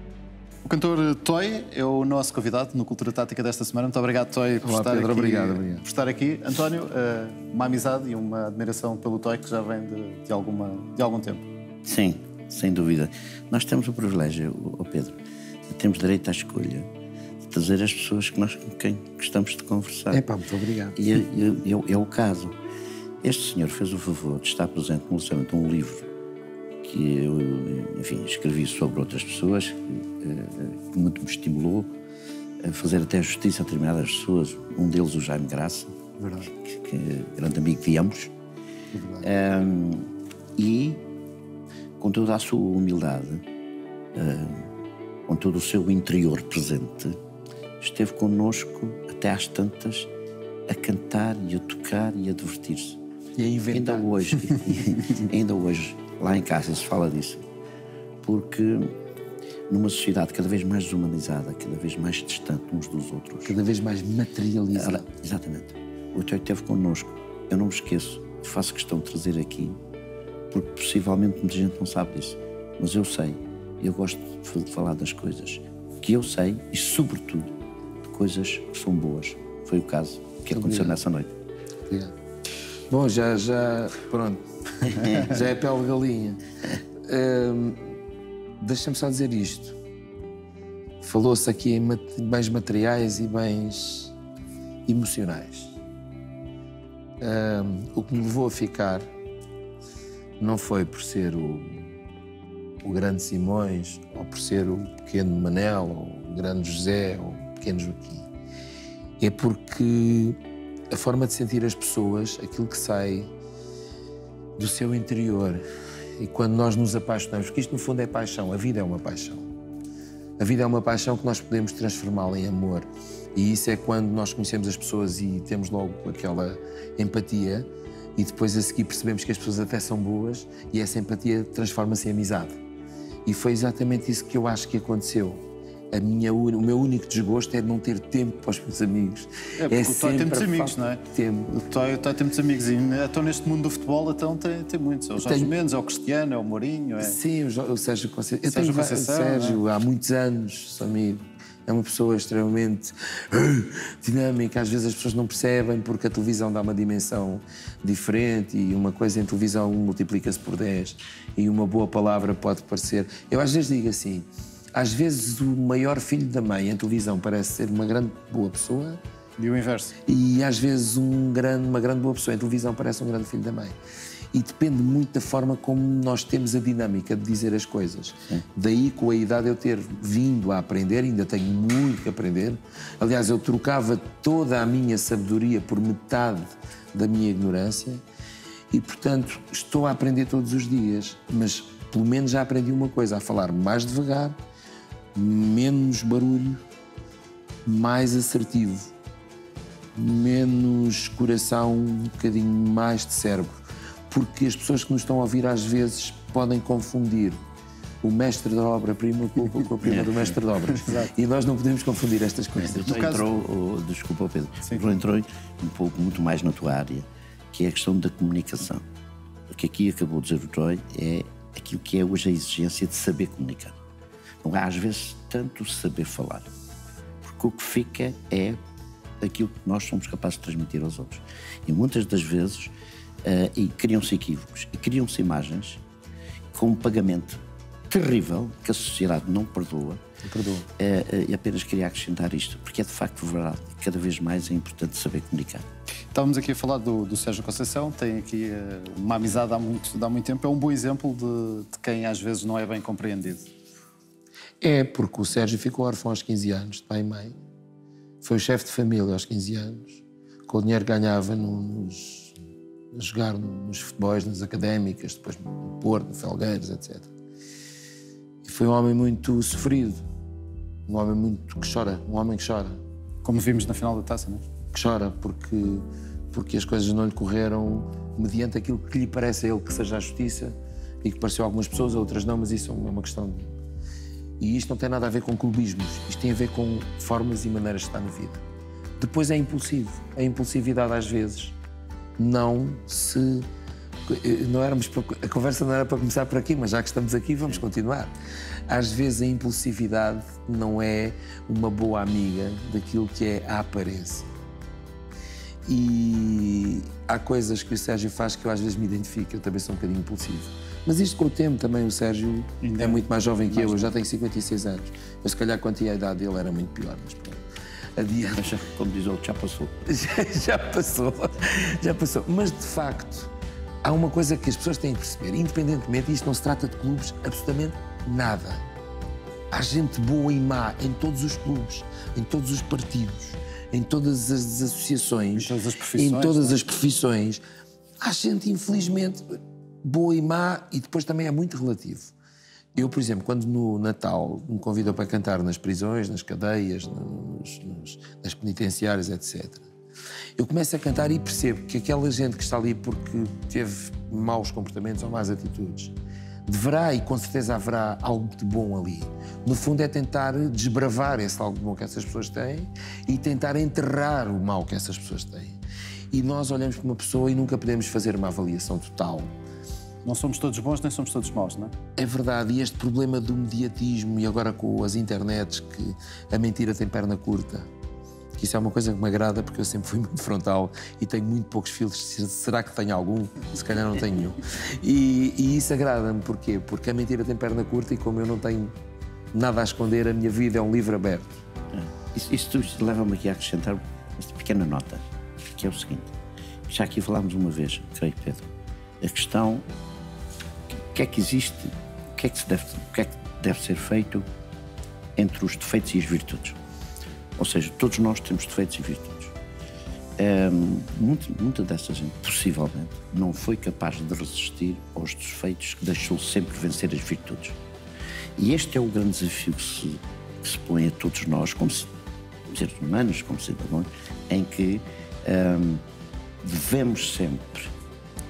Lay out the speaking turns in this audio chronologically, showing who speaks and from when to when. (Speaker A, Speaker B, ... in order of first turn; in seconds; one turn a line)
Speaker A: 0.7-11.5
Speaker B: 4.6-5.8
Speaker C: 11.8-16.9
Speaker C: 17.4-20.2
Speaker B: 20.1-21.0
Speaker C: 20.9-22.6
Speaker C: 23.2-26.1
Speaker C: 26.8-31.9
Speaker C: 32.6-36.0
Speaker B: 36.2-36.5
Speaker C: 36.5-38.3
Speaker B: 38.9-39.2
Speaker C: 39.2-41.0
Speaker C: 42.0-43.4
Speaker C: 44.1-44.7
Speaker C: 45.3-47.2
Speaker C: 47.8-50.1
Speaker C: 50.7-53.0
Speaker B: 53.4-54.6
Speaker C: 53.7-57.5
Speaker C: 58.2-59.0
Speaker C: 59.7-63.6
Speaker B: 63.5-65.1
Speaker C: 64.7-69.8
Speaker C: 70.5-81.3
Speaker B: 80.5-81.0
Speaker B: 81.9-82.1
Speaker B: 82.9-86.4
Speaker C: 84.8-85.3
Speaker B: 87.0-87.9
Speaker B: 88.6-89.8
Speaker B: 91.0-94.1
Speaker B: 94.9-95.8
Speaker B: 97.2-99.1
Speaker B: 100.4-101.9
Speaker B: 102.8-108.3
Speaker B: 109.2-110.4
Speaker B: 110.9-113.3
Speaker B: 114.6-115.6
Speaker B: 116.2-119.5
Speaker B: 120.4-132.6
Speaker B: 133.2-141.5
Speaker A: 139.6-147.2
Speaker B: 145.2-145.5
Speaker B: 147.0-169.0
Speaker A: 148.5-149.6
Speaker A: 169.4-169.9
Speaker B: 170.1-173.8
Speaker B: 174.3-188.0
Speaker B: 188.7-194.4
Speaker B: 195.1-196.6
Speaker B: 197.6-198.9
Speaker B: 199.9-207.4
Speaker B: 208.0-213.1
Speaker C: 209.8-210.3
Speaker A: 210.8-211.1
Speaker C: 212.6-218.8
Speaker A: 212.8-213.2
Speaker A: 214.7-214.9
Speaker C: 219.5-223.8
Speaker C: 224.4-226.5
Speaker C: 227.2-228.6
Speaker C: 229.2-232.7
Speaker C: 233.2-235.8
Speaker C: 236.5-240.0
Speaker B: 240.2-240.7
Speaker C: 240.8-245.7
Speaker A: 246.1-253.5
Speaker B: 254.6-257.4
Speaker B: 258.2-262.4
Speaker B: 262.9-267.1
Speaker B: 268.4-270.0
Speaker B: 270.9-272.8
Speaker A: 273.2-274.4
Speaker B: 274.7-283.5
Speaker B: 284.4-288.4
Speaker B: 289.0-291.6
Speaker B: 292.2-293.5
Speaker B: 294.1-298.1
Speaker B: 298.7-304.3
Speaker B: 305.6-317.4
Speaker A: 312.6-313.9
Speaker B: 318.0-318.6
Speaker C: 318.3-319.8
Speaker B: 319.9-323.3
Speaker B: 323.8-328.6
Speaker B: 329.5-337.4
Speaker A: 335.4-336.6
Speaker B: 338.0-342.1
Speaker B: 342.8-349.7
Speaker B: 350.4-355.9
Speaker B: 356.5-365.6
Speaker B: 366.1-369.3
Speaker A: 370.0-371.7
Speaker B: 372.0-377.7
Speaker B: 378.4-388.7
Speaker B: 389.3-391.4
Speaker C: 391.7-396.1
Speaker C: 396.7-399.7
Speaker C: 400.9-404.2
Speaker C: 405.2-406.6
Speaker C: 407.4-409.3
Speaker C: 410.2-417.6
Speaker C: 418.4-421.9
Speaker C: 422.5-425.8
Speaker C: 426.4-427.7